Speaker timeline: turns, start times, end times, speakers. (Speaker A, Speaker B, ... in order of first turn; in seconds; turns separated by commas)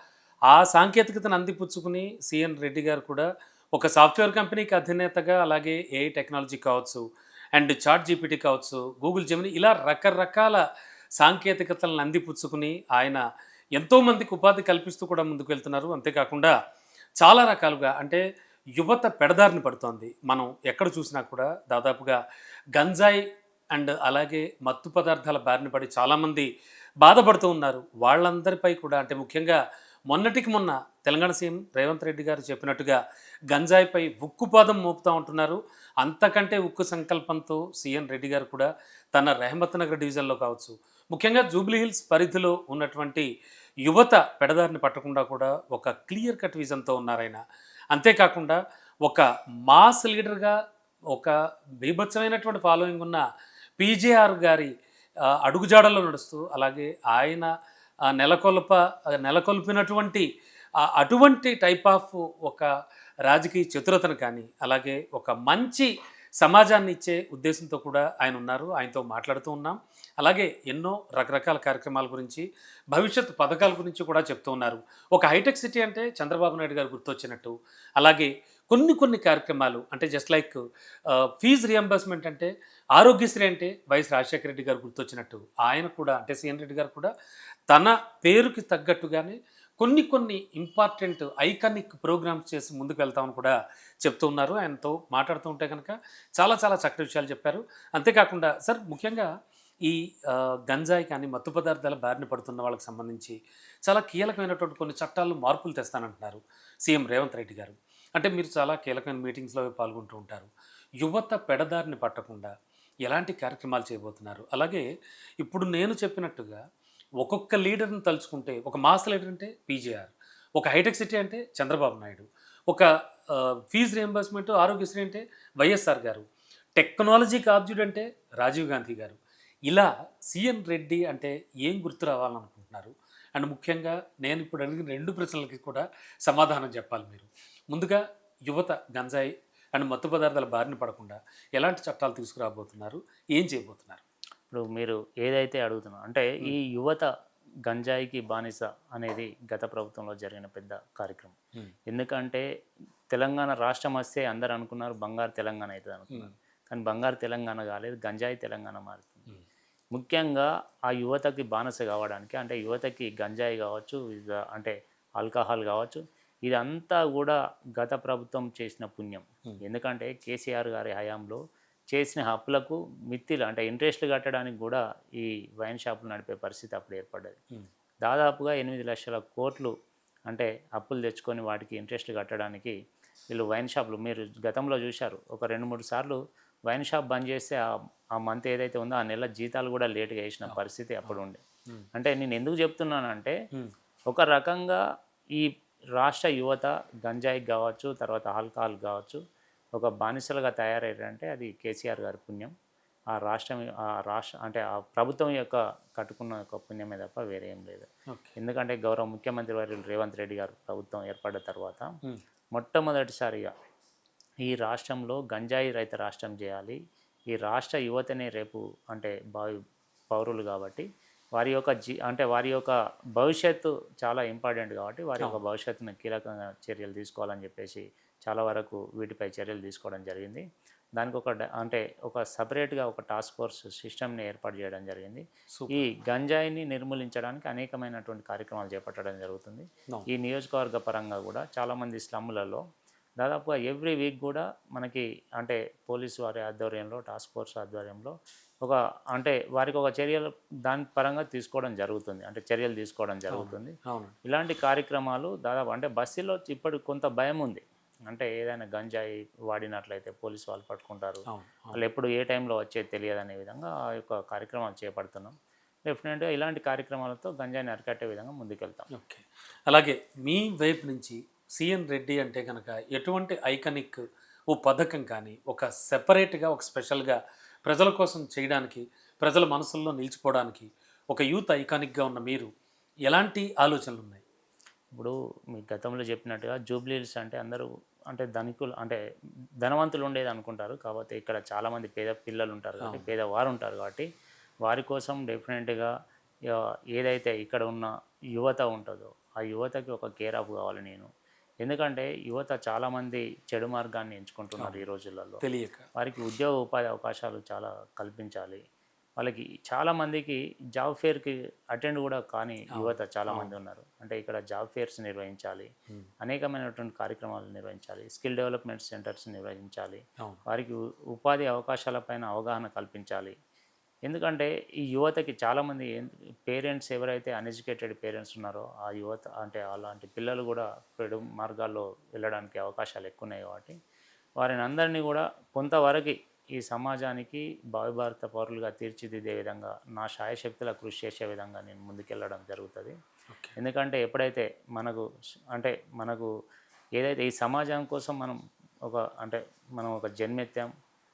Speaker A: 0.5-7.0, Speaker A: 7.5-10.6, Speaker A: 11.2-13.2, Speaker A: 13.7-16.5, Speaker A: 17.2-18.2, Speaker A: 18.8-22.2, Speaker A: 22.7-23.2, Speaker A: 23.7-26.5, Speaker A: 27.0-29.6, Speaker A: 30.1-33.0, Speaker A: 33.5-43.3, Speaker A: 43.8-47.4, Speaker A: 47.9-50.5, Speaker A: 51.1-53.2, Speaker A: 53.8-54.7, Speaker A: 55.2-57.5, Speaker A: 58.1-60.3, Speaker A: 60.8-62.7, Speaker A: 63.2-87.1, Speaker A: 87.7-99.3, Speaker A: 99.8-103.3, Speaker A: 103.8-110.5, Speaker A: 111.0-112.5, Speaker A: 113.0-114.8, Speaker A: 115.4-116.6, Speaker A: 117.2-126.2, Speaker A: 126.8-129.2, Speaker A: 129.7-144.0, Speaker B: 144.5-147.1, Speaker B: 147.7-151.3, Speaker B: 151.9-152.4, Speaker B: 153.1-159.3, Speaker B: 159.9-171.4, Speaker B: 171.9-177.4, Speaker B: 178.0-179.7, Speaker B: 180.3-182.7, Speaker B: 183.3-187.6, Speaker B: 188.2-191.4, Speaker A: 190.4-191.8, Speaker B: 191.9-193.3, Speaker B: 194.1-194.8, Speaker B: 195.3-199.2, Speaker B: 199.8-202.5, Speaker B: 203.2-207.9, Speaker B: 208.4-211.9, Speaker B: 212.5-213.5, Speaker B: 214.4-216.8, Speaker B: 217.3-219.5, Speaker B: 220.1-230.4, Speaker B: 231.0-242.6, Speaker A: 235.5-235.8, Speaker B: 243.2-265.3, Speaker A: 253.3-254.1, Speaker A: 261.3-261.8, Speaker B: 265.9-268.9, Speaker A: 268.9-282.5, Speaker A: 283.1-284.2, Speaker B: 284.9-289.0, Speaker B: 289.6-294.1, Speaker A: 292.8-293.1, Speaker B: 294.6-295.9, Speaker B: 296.5-301.1, Speaker B: 301.6-305.4, Speaker A: 305.4-305.9, Speaker B: 305.9-308.6, Speaker B: 309.2-315.7, Speaker A: 312.7-313.5, Speaker B: 316.2-323.3, Speaker B: 324.1-333.7, Speaker B: 334.4-342.9, Speaker B: 343.6-345.0, Speaker B: 345.5-346.3, Speaker B: 347.0-350.7